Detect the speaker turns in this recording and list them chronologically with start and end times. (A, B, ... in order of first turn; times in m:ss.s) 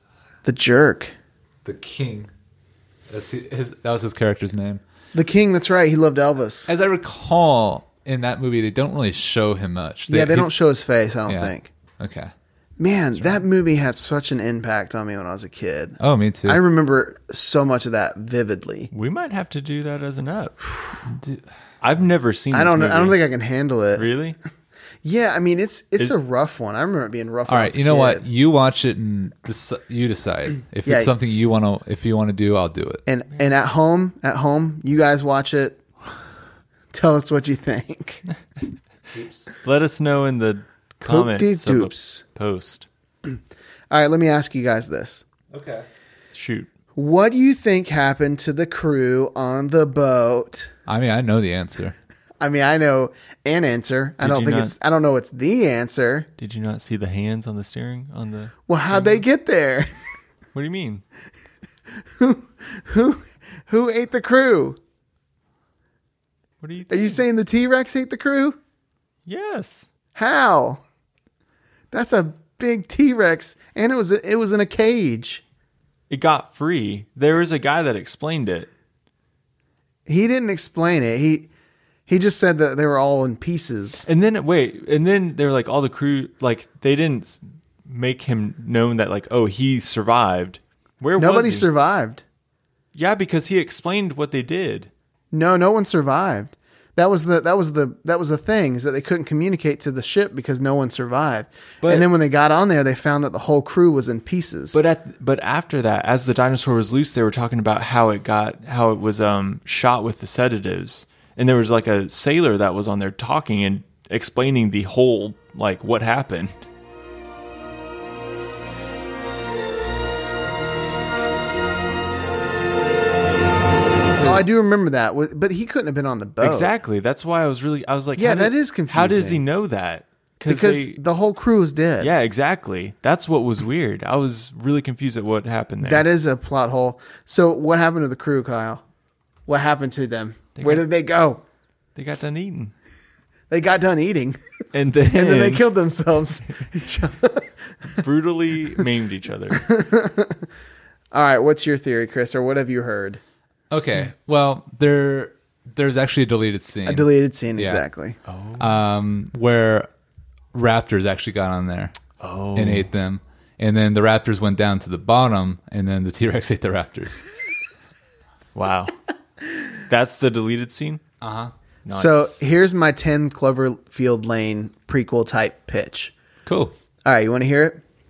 0:00.4-0:01.1 A
0:01.6-0:02.3 B
0:03.1-0:04.8 B
0:05.1-0:06.7 A
0:06.7-0:10.5 B
0:10.1-0:11.7 A
0:11.3-0:12.3 B
0:12.8-0:18.9 A
0:13.2-0:13.4 B
0:16.0-0:16.6 B
0:18.9-0:20.6 C
0:21.1-0:21.4 B
0:21.8-0:23.2 C
0:22.5-0:24.1 A
0:24.0-0:24.4 C
0:25.0-0:28.2 A
0:27.5-0:33.0 B
0:30.8-0:31.1 A
0:33.1-0:35.8 A
0:36.9-0:38.2 A
0:39.1-0:39.5 B
0:39.6-0:42.9 C
0:41.0-0:42.2 A
0:43.9-0:45.2 A
0:45.5-0:45.9 B
0:46.3-0:46.7 C
0:47.0-0:50.7 A
0:50.9-0:52.0 B
0:52.4-0:56.3 A
0:54.2-0:54.7 C
0:56.4-0:59.2 C
0:58.7-0:59.9 A
1:00.5-1:01.0 C
1:02.2-1:04.8 A
1:06.6-1:07.2 C
1:06.9-1:08.6 A
1:09.3-1:09.9 C
1:10.2-1:10.8 A
1:11.9-1:15.4 A
1:16.1-1:18.7 C
1:20.1-1:21.5 A
1:22.1-1:24.1 A
1:24.1-1:31.7 C
1:31.2-1:32.2 A
1:32.9-1:34.9 C
1:35.3-1:44.8 A
1:41.8-1:42.1 C
1:44.7-1:56.6 C
2:04.2-2:04.5 C
2:04.2-2:06.7 A
2:06.4-2:11.0 C
2:08.2-2:09.4 A
2:10.5-2:12.1 A
2:12.0-2:16.1 C
2:15.8-2:18.8 A
2:19.5-2:21.4 A
2:20.6-2:20.9 C
2:22.0-2:22.7 C
2:23.5-2:24.4 A
2:24.7-2:25.7 C
2:25.1-2:28.0 A
2:28.0-2:29.6 C
2:29.5-2:30.4 A
2:31.1-2:33.2 A
2:33.7-2:37.8 B
2:36.9-2:38.2 A
2:38.3-2:38.8 C
2:38.6-2:39.9 B
2:40.5-2:42.0 B
2:42.2-2:42.9 C
2:42.6-2:47.2 B
2:48.6-2:48.9 C
2:49.9-2:51.0 C
2:51.2-2:51.5 B
2:51.9-2:52.4 C
2:51.9-2:56.1 A
2:56.4-2:56.7 B
2:57.0-2:57.8 A